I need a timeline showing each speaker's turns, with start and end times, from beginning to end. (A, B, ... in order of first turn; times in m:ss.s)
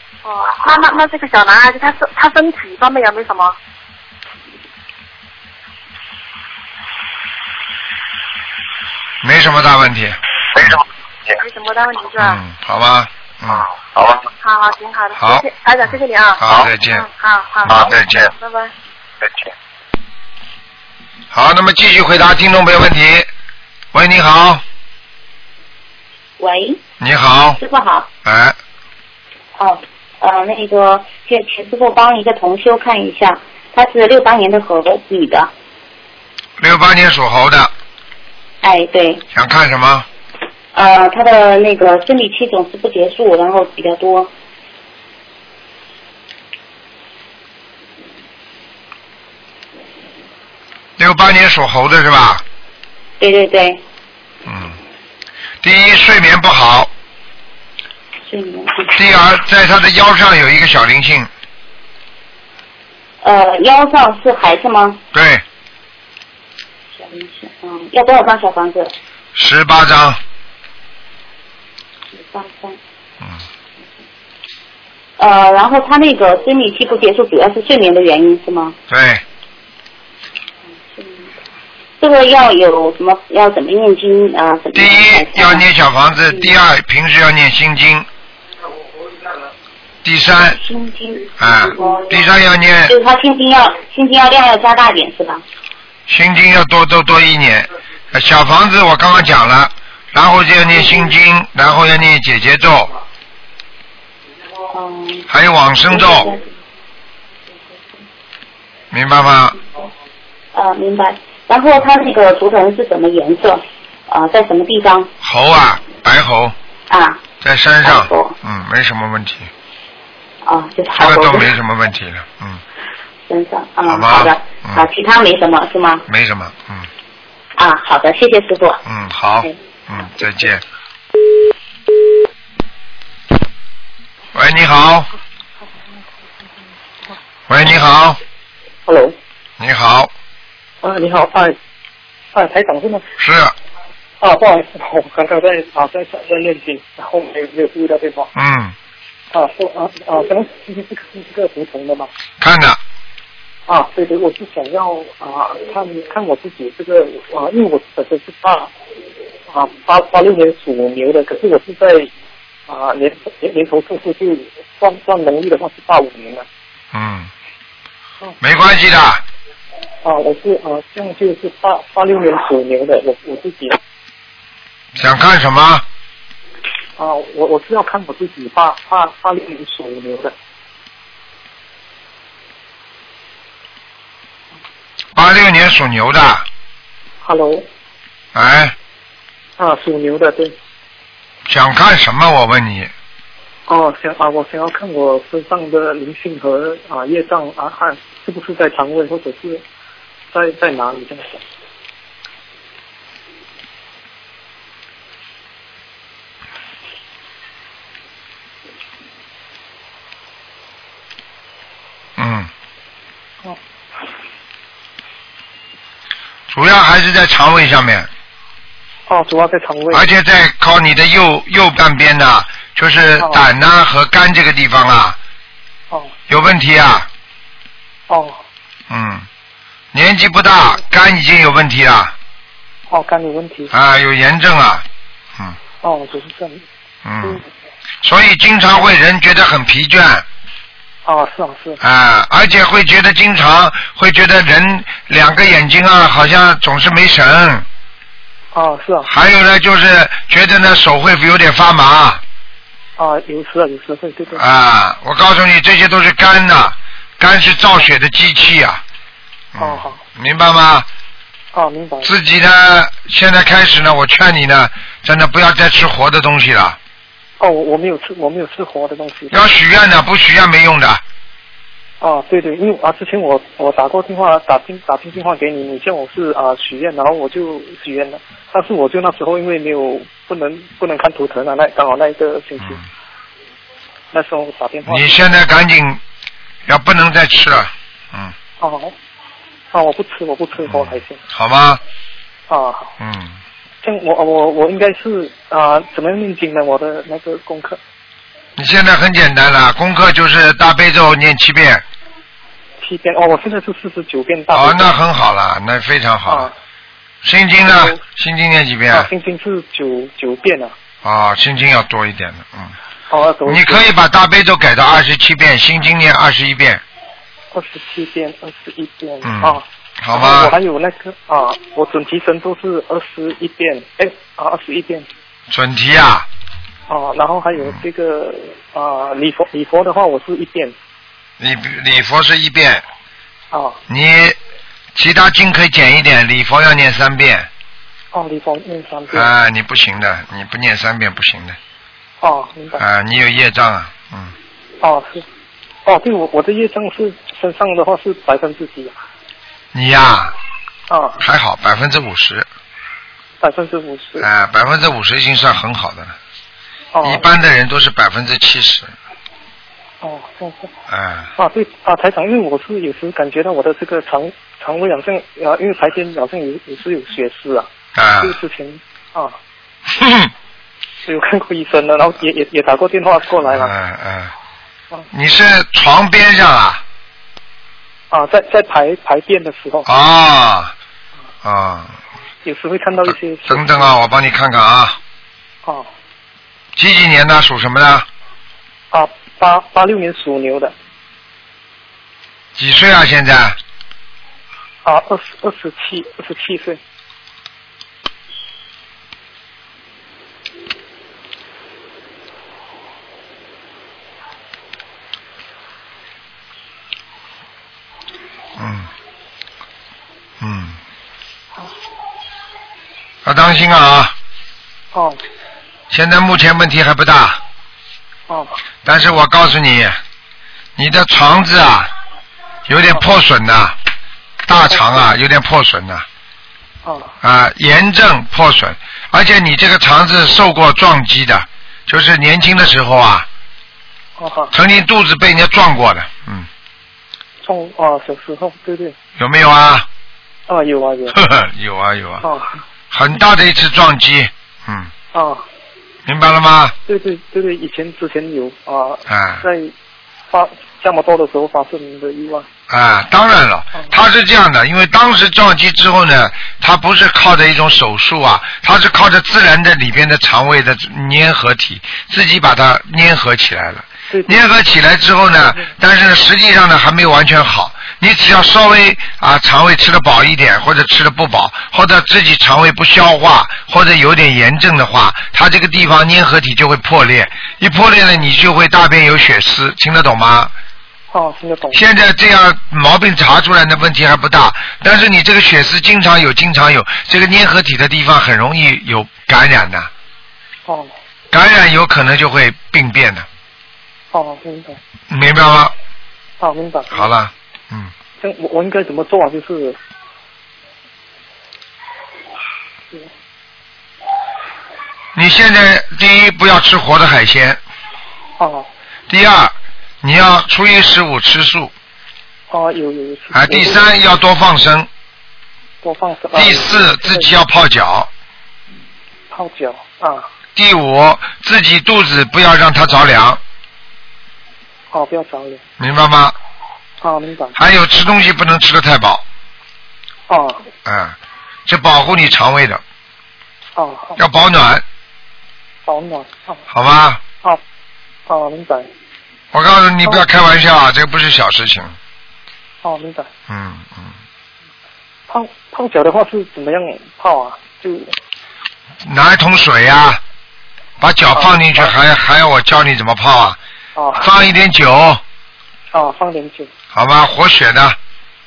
0:00.2-0:03.6 A
0:09.2-0:10.8 B
0:10.6-0:11.4 C
0:11.4-0:12.4 A
0:12.2-0:13.6 B
0:13.5-0:14.3 C
0:14.4-0:18.7 A
0:15.2-0:15.4 B
0:16.4-0:17.1 B
0:17.6-0:18.3 B
0:17.7-0:18.2 C
0:19.2-0:19.5 C
0:21.3-0:23.3 B
0:23.9-0:24.6 B
0:26.4-0:26.8 D
0:27.0-0:27.6 B
0:27.6-0:28.1 D
0:28.2-0:28.6 B
0:29.6-0:35.5 D
0:36.6-0:37.7 B
0:38.6-0:39.2 D
0:39.3-0:40.1 B
0:40.7-0:44.3 D
0:51.0-0:52.4 B
0:53.2-0:53.8 D
0:54.5-0:54.8 B
0:55.6-0:56.9 B
0:58.3-0:59.0 D
0:58.9-1:01.3 B
1:03.2-1:05.0 D
1:05.1-1:05.4 B
1:06.9-1:08.9 D
1:09.4-1:10.2 B
1:12.1-1:12.8 D
1:15.2-1:18.8 D
1:18.9-1:19.2 B
1:20.8-1:21.3 D
1:22.0-1:25.7 D
1:24.7-1:28.1 B
1:26.3-1:26.5 D
1:30.0-1:30.6 B
1:30.5-1:32.2 D
1:31.4-1:33.0 B
1:32.9-1:35.4 D
1:36.1-1:42.9 B
1:44.7-1:45.3 D
1:45.3-1:46.3 B
1:45.9-1:46.4 D
1:48.9-1:49.6 B
1:50.5-1:55.1 D
1:55.2-1:56.6 B
1:56.9-1:57.2 D
1:57.4-1:59.5 B
1:57.8-1:58.3 D
2:00.4-2:01.6 D
2:01.0-2:02.6 B
2:03.3-2:06.0 D
2:03.8-2:04.8 B
2:06.1-2:06.9 B
2:07.6-2:08.8 D
2:08.8-2:10.6 B
2:14.3-2:15.1 B
2:17.5-2:18.2 B
2:18.9-2:19.2 E
2:19.6-2:20.1 B
2:20.8-2:21.6 E
2:22.3-2:23.0 E
2:23.2-2:23.6 B
2:24.2-2:28.3 E
2:28.4-2:28.8 B
2:29.3-2:32.1 E
2:32.4-2:32.8 B
2:33.7-2:38.7 E
2:39.5-2:42.1 E
2:42.7-2:46.5 E
2:46.9-2:47.3 B
2:48.4-2:49.2 B
2:50.0-2:53.8 E
2:55.0-2:55.8 B
2:57.0-3:00.3 E
3:05.2-3:06.5 B
3:07.2-3:07.7 E
3:08.3-3:08.8 B
3:09.6-3:10.6 E
3:11.5-3:12.9 B
3:13.7-3:19.6 E
3:20.3-3:21.4 E
3:32.2-3:32.5 B
3:36.5-3:38.1 B
3:39.1-3:40.0 E
3:39.9-3:45.2 B
3:43.2-3:43.4 E
3:46.3-3:47.1 B
3:48.1-3:48.4 E
3:48.9-3:49.3 B
3:49.9-3:52.1 B
3:52.9-3:53.7 E
3:53.7-3:54.8 B
3:55.8-3:56.6 E
3:57.0-3:57.4 B
3:58.0-4:00.2 B
4:01.0-4:01.8 E
4:01.8-4:07.7 B
4:08.5-4:09.1 E
4:09.1-4:12.2 B
4:13.0-4:14.4 E
4:14.4-4:18.8 B
4:19.5-4:20.9 B
4:19.6-4:20.0 E
4:21.5-4:22.1 E
4:22.0-4:26.8 B
4:27.4-4:29.4 E
4:29.3-4:31.0 B
4:32.0-4:42.8 E
4:42.6-4:42.8 B
4:44.1-4:45.2 E
4:44.8-4:46.0 B
4:46.7-4:48.3 B
4:48.6-4:49.0 E
4:49.7-4:51.2 E
4:50.6-4:51.8 B
4:52.5-4:52.9 E
4:53.0-4:53.4 B
4:53.8-4:57.8 E
4:58.6-5:01.8 B
5:02.8-5:04.9 E
5:04.5-5:06.5 B
5:06.3-5:06.5 E
5:07.2-5:09.1 B
5:07.6-5:08.0 E
5:08.9-5:10.7 E
5:11.0-5:12.8 B
5:13.1-5:13.9 E
5:13.4-5:16.8 B
5:17.5-5:25.1 E
5:19.2-5:20.6 B
5:25.5-5:26.3 B
5:26.9-5:30.8 E
5:27.6-5:27.8 B
5:31.4-5:32.8 B
5:33.5-5:33.8 E
5:33.9-5:34.4 B
5:35.0-5:37.5 B
5:38.1-5:39.3 E
5:39.1-5:41.6 B
5:42.2-5:42.8 E
5:42.8-5:44.3 B
5:44.8-5:45.3 E
5:45.8-5:49.0 E
5:49.7-5:50.3 B
5:50.9-5:51.2 E
5:51.2-5:52.5 B
5:53.4-5:54.3 E
5:54.2-5:56.2 B
5:56.9-5:57.3 E
5:57.0-5:59.0 B
6:00.0-6:00.7 E
6:00.9-6:01.3 B
6:01.4-6:07.7 E
6:08.0-6:08.4 B
6:08.2-6:09.4 E
6:09.9-6:10.3 B
6:11.1-6:13.7 E
6:13.4-6:14.3 B
6:15.1-6:16.8 B
6:18.1-6:19.9 E
6:19.8-6:20.7 B
6:21.4-6:22.0 B
6:22.4-6:24.0 E
6:23.0-6:25.0 B
6:26.8-6:28.1 B
6:28.9-6:30.7 E
6:32.6-6:33.6 B
6:34.8-6:36.8 E
6:48.6-6:48.9 B
6:50.4-6:50.8 B
6:53.2-6:54.1 B
6:54.9-6:55.2 E
6:55.9-6:57.4 B
6:58.3-6:58.6 E
6:58.8-7:00.0 B
7:00.8-7:01.9 B
7:02.7-7:03.8 B
7:04.5-7:06.0 B
7:06.8-7:07.1 E
7:07.2-7:13.3 B
7:14.2-7:14.5 E
7:14.5-7:16.5 B
7:17.4-7:19.0 E
7:19.2-7:19.9 B
7:20.5-7:21.2 E
7:21.1-7:22.2 B
7:22.2-7:22.6 E
7:22.9-7:24.9 B
7:25.1-7:25.4 E
7:26.1-7:26.8 B
7:26.9-7:29.7 E
7:29.1-7:29.5 B
7:30.3-7:32.5 E
7:32.7-8:00.5 B
7:44.1-7:44.5 E
7:45.4-7:45.7 E
8:01.1-8:01.8 E
8:01.7-8:09.9 B
8:10.7-8:10.9 E
8:11.3-8:13.3 B
8:14.1-8:14.8 E
8:15.1-8:15.7 B
8:16.4-8:17.1 E
8:16.9-8:17.9 B
8:18.2-8:19.8 E
8:25.2-8:27.6 B
8:28.4-8:28.7 E
8:29.1-8:31.7 B
8:32.5-8:33.9 E
8:33.3-8:34.9 B
8:35.8-8:37.3 E
8:36.3-8:38.1 B
8:39.3-8:40.3 E
8:40.6-8:43.4 B
8:44.9-8:45.6 E
8:45.8-8:46.4 B
8:47.0-8:47.6 E
8:47.6-8:49.2 B
8:50.3-8:50.6 E
8:50.8-8:52.8 B
8:53.8-8:54.2 E
8:54.2-8:54.8 B
8:55.9-8:56.6 E
8:56.7-8:57.2 B
8:58.3-8:58.9 E
8:59.5-9:02.0 B
9:02.8-9:03.3 E
9:03.5-9:04.2 B
9:05.3-9:08.1 E
9:09.0-9:10.2 B
9:11.0-9:13.6 B
9:11.3-9:12.0 E
9:14.0-9:14.3 E
9:14.2-9:15.2 B
9:15.9-9:16.7 E
9:16.9-9:18.0 B